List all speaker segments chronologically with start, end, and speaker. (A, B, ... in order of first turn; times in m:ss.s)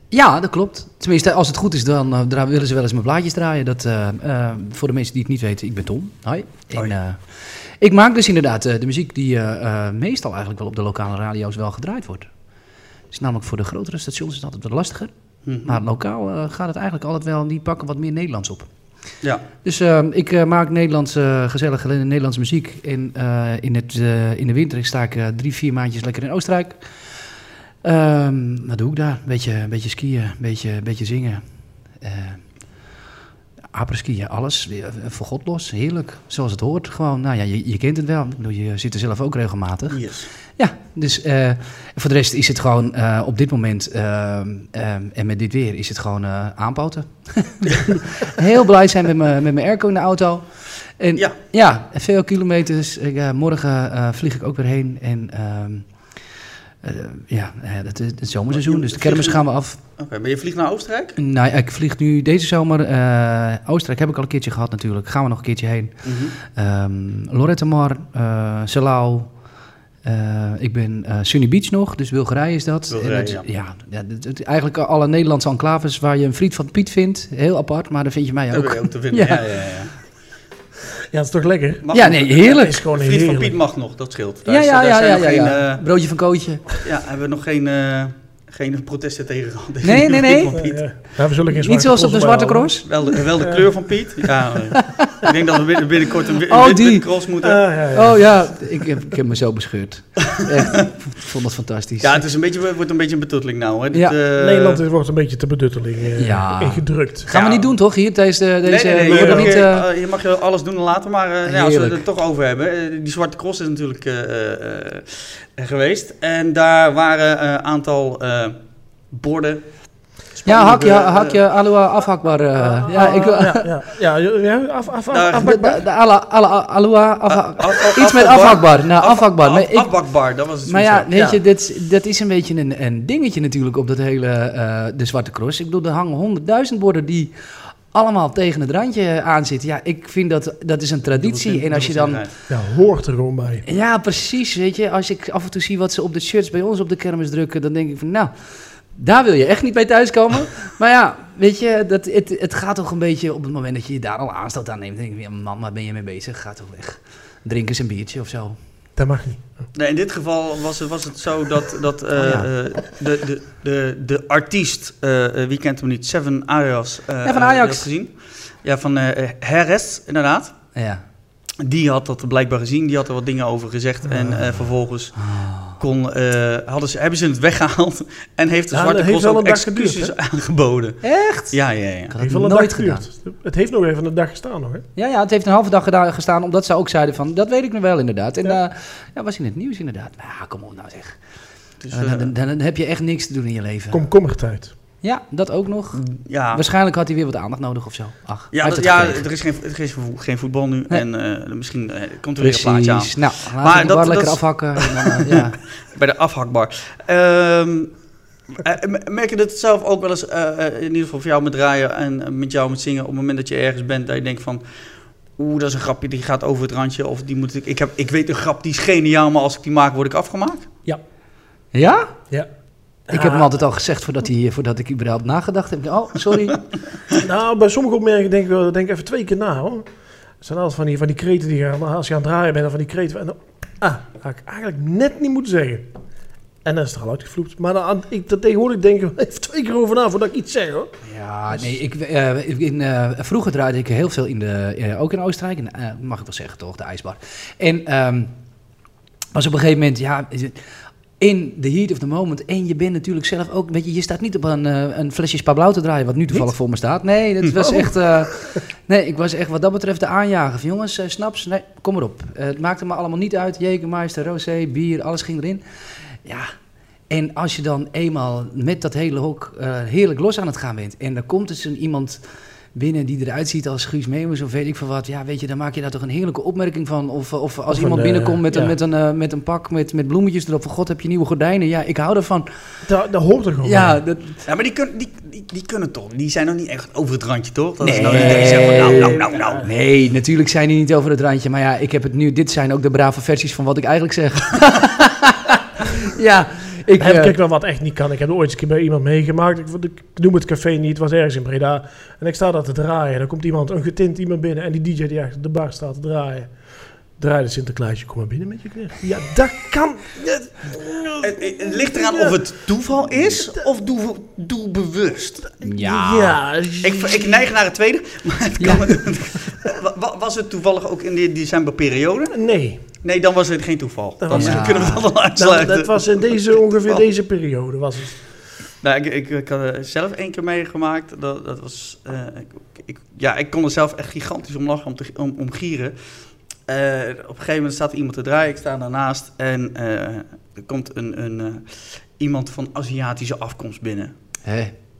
0:00.1-0:12.3 A
0:13.1-0:15.1 A
0:15.4-0:15.8 B
0:15.6-0:18.7 A
0:19.6-0:27.1 A
0:27.8-0:31.4 A
0:32.0-0:32.4 A
0:33.7-0:40.0 A
0:39.9-0:40.3 B
0:40.6-0:55.9 A
0:56.8-0:59.8 A
0:58.5-0:59.4 B
1:00.0-1:01.2 B
1:01.2-1:09.3 A
1:06.0-1:06.3 B
1:10.0-1:19.4 A
1:12.9-1:13.4 B
1:18.5-1:20.0 B
1:21.1-1:21.9 C
1:21.8-1:25.8 B
1:21.9-1:22.7 A
1:22.4-1:23.6 C
1:24.4-1:26.6 A
1:26.7-1:30.8 B
1:29.8-1:30.6 A
1:30.5-1:32.7 C
1:31.5-1:32.9 A
1:32.8-1:37.6 B
1:33.4-1:33.6 C
1:34.7-1:35.2 A
1:36.5-1:37.1 A
1:37.4-1:38.8 C
1:37.9-1:42.2 A
1:40.3-1:40.8 B
1:42.0-1:44.8 B
1:44.4-1:47.3 C
1:46.2-1:49.8 A
1:47.3-1:47.7 B
1:48.6-1:58.6 B
1:49.0-1:49.6 C
1:51.4-1:52.0 A
1:59.1-1:59.6 B
2:00.3-2:01.4 B
2:00.5-2:03.7 A
2:02.6-2:05.8 C
2:05.1-2:05.8 B
2:05.4-2:09.9 A
2:07.3-2:11.4 B
2:10.6-2:17.3 A
2:17.9-2:22.2 A
2:21.2-2:22.3 B
2:22.5-2:23.6 C
2:23.6-2:28.3 A
2:28.9-2:38.6 A
2:39.0-2:39.6 C
2:39.7-2:50.5 B
2:42.2-2:42.5 A
2:47.2-2:47.9 A
2:50.7-2:51.0 A
2:51.6-3:02.1 B
2:54.0-2:54.6 C
2:55.2-2:55.8 A
2:58.7-3:00.1 C
3:01.0-3:03.1 A
3:02.2-3:04.8 C
3:05.0-3:11.2 A
3:11.8-3:12.3 B
3:11.9-3:14.0 A
3:13.9-3:14.7 C
3:15.0-3:19.2 A
3:15.9-3:16.6 B
3:18.5-3:28.0 B
3:22.4-3:25.6 A
3:28.5-3:34.6 B
3:35.4-3:40.7 B
3:41.7-3:42.1 A
3:43.1-3:43.5 C
3:43.1-3:46.6 A
3:47.2-3:49.9 C
3:50.4-3:55.9 C
3:56.6-4:00.9 C
4:01.0-4:08.3 A
4:01.5-4:01.8 C
4:09.3-4:25.6 A
4:17.6-4:18.3 C
4:26.2-4:26.5 A
4:27.1-4:32.2 A
4:32.7-4:42.5 A
4:37.7-4:38.8 C
4:42.8-4:44.0 C
4:43.6-4:44.4 A
4:44.4-4:49.7 B
4:47.8-4:57.3 A
4:48.2-4:49.6 C
4:57.0-5:06.5 C
5:07.2-5:12.4 C
5:11.2-5:15.5 B
5:15.6-5:17.3 C
5:15.6-5:16.4 A
5:16.8-5:22.4 B
5:18.6-5:18.9 A
5:22.3-5:22.8 C
5:23.0-5:27.0 B
5:24.2-5:28.2 C
5:24.3-5:25.1 A
5:28.8-5:35.9 B
5:36.6-5:44.1 B
5:44.4-5:44.7 A